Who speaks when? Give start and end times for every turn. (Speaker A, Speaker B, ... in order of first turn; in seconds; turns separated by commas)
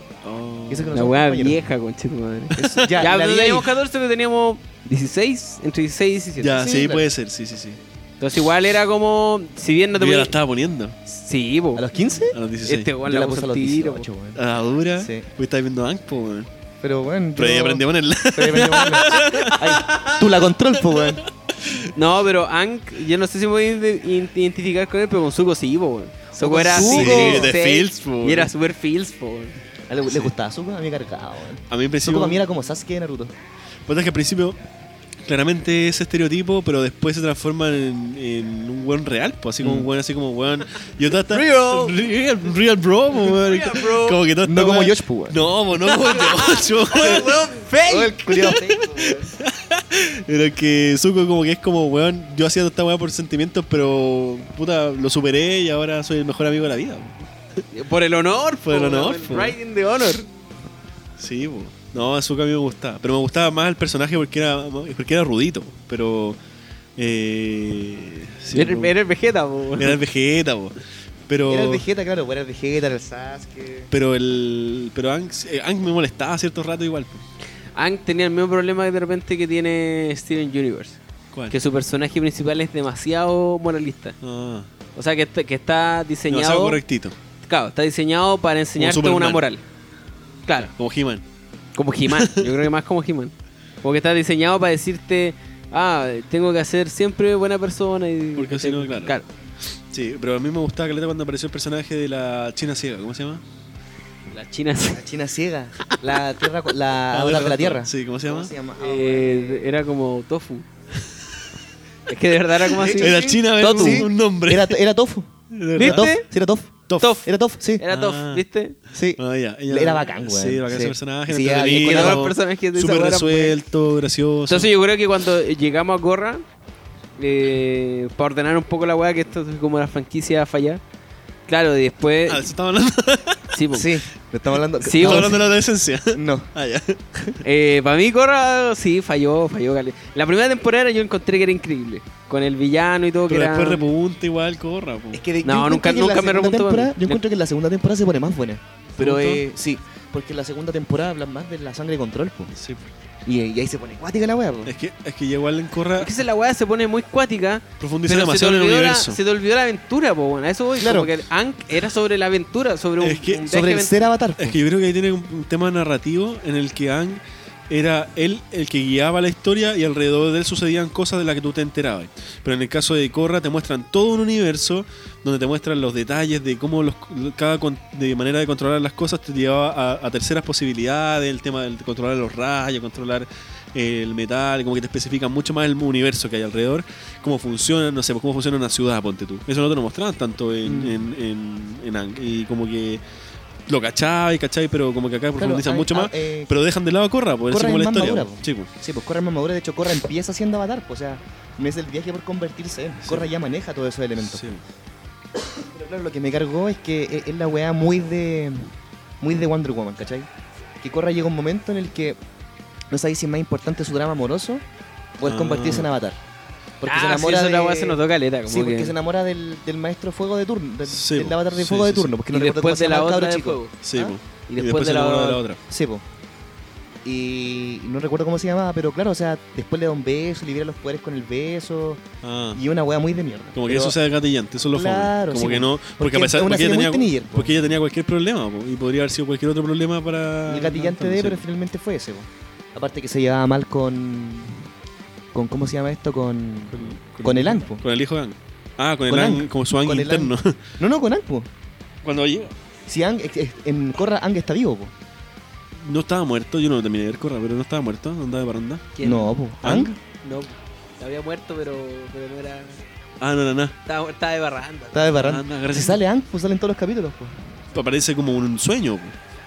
Speaker A: 0.2-1.0, Speaker B: 0.7-1.6, Speaker C: 0.9-6.8, Speaker B: 2.5-3.7, Speaker A: 2.6-3.0, Speaker A: 6.4-7.8, Speaker B: 6.6-7.0, Speaker C: 8.2-10.3, Speaker A: 9.9-11.0, Speaker C: 11.1-11.8, Speaker B: 11.8-12.4, Speaker A: 12.3-12.9, Speaker C: 12.6-14.1, Speaker B: 13.0-14.4, Speaker A: 14.3-16.5, Speaker B: 15.0-15.3, Speaker B: 16.8-21.2, Speaker A: 17.4-20.2, Speaker A: 20.9-21.9, Speaker C: 21.9-29.5, Speaker B: 26.4-27.5, Speaker A: 26.5-28.5, Speaker B: 29.9-33.3, Speaker A: 31.7-32.4, Speaker A: 33.9-34.6, Speaker A: 35.2-47.5, Speaker B: 39.6-39.9, Speaker C: 41.3-42.0, Speaker C: 43.1-44.2, Speaker B: 44.4-45.4, Speaker C: 45.8-48.6, Speaker B: 47.8-49.3, Speaker A: 48.4-57.2, Speaker C: 57.7-60.3, Speaker A: 58.6-59.6, Speaker A: 61.2-66.4, Speaker A: 67.0-68.9, Speaker C: 68.5-70.0, Speaker A: 69.8-71.8, Speaker B: 71.5-73.9, Speaker A: 73.9-77.2, Speaker C: 77.7-84.2, Speaker A: 84.2-84.7, Speaker C: 84.9-86.8, Speaker A: 86.3-87.2, Speaker C: 87.4-89.6, Speaker A: 88.8-89.4, Speaker A: 90.7-91.2, Speaker C: 91.8-99.3, Speaker A: 92.1-92.6, Speaker A: 98.3-99.1, Speaker A: 99.9-103.4, Speaker C: 104.3-105.0, Speaker B: 104.9-109.7, Speaker C: 105.8-106.2, Speaker A: 107.1-108.5, Speaker C: 108.8-110.7, Speaker C: 112.1-114.0, Speaker B: 112.7-117.8, Speaker A: 112.8-114.8, Speaker A: 115.5-116.1, Speaker C: 115.8-116.2, Speaker A: 116.9-117.2, Speaker C: 117.0-118.7, Speaker A: 117.9-118.4, Speaker B: 118.9-122.3, Speaker A: 119.2-124.7, Speaker C: 121.7-123.5, Speaker C: 124.5-126.4, Speaker C: 127.2-130.8, Speaker C: 131.5-132.5, Speaker A: 132.3-133.6, Speaker C: 133.5-133.9, Speaker B: 133.7-135.4, Speaker C: 134.8-135.3, Speaker A: 134.9-137.4, Speaker B: 136.1-136.5, Speaker C: 137.4-143.8, Speaker A: 143.3-145.2, Speaker B: 145.1-152.5, Speaker C: 145.4-147.2, Speaker C: 149.0-149.4, Speaker A: 149.0-149.4, Speaker A: 152.5-152.9, Speaker B: 153.2-154.7, Speaker A: 154.7-156.1, Speaker C: 156.0-164.1, Speaker A: 157.8-159.2, Speaker B: 160.8-161.1, Speaker A: 163.0-163.5, Speaker B: 163.4-164.6, Speaker A: 164.4-193.0, Speaker B: 190.6-191.1, Speaker A: 193.7-198.7, Speaker B: 195.4-196.5, Speaker B: 197.5-204.4, Speaker A: 204.2-204.6, Speaker B: 205.5-210.3, Speaker B: 210.8-212.2, Speaker B: 212.9-214.6, Speaker B: 215.2-216.2, Speaker A: 215.2-215.9, Speaker B: 216.8-224.1, Speaker C: 216.8-218.9, Speaker A: 220.9-222.1, Speaker C: 222.3-223.8, Speaker A: 223.8-225.6, Speaker C: 224.4-225.4, Speaker B: 225.7-226.0, Speaker B: 227.0-232.0, Speaker A: 232.2-232.6, Speaker B: 232.5-234.0, Speaker A: 233.5-241.4, Speaker B: 234.7-237.6, Speaker B: 240.5-244.7, Speaker B: 245.3-247.8, Speaker A: 246.7-250.5, Speaker B: 249.1-251.5, Speaker A: 252.0-252.5, Speaker B: 252.9-254.9, Speaker A: 255.8-258.9, Speaker C: 258.9-259.3, Speaker B: 259.0-259.9, Speaker A: 259.6-259.9, Speaker C: 260.0-262.8, Speaker A: 263.2-263.7, Speaker C: 263.8-265.1, Speaker B: 264.9-267.4, Speaker A: 265.2-266.0, Speaker A: 267.7-269.2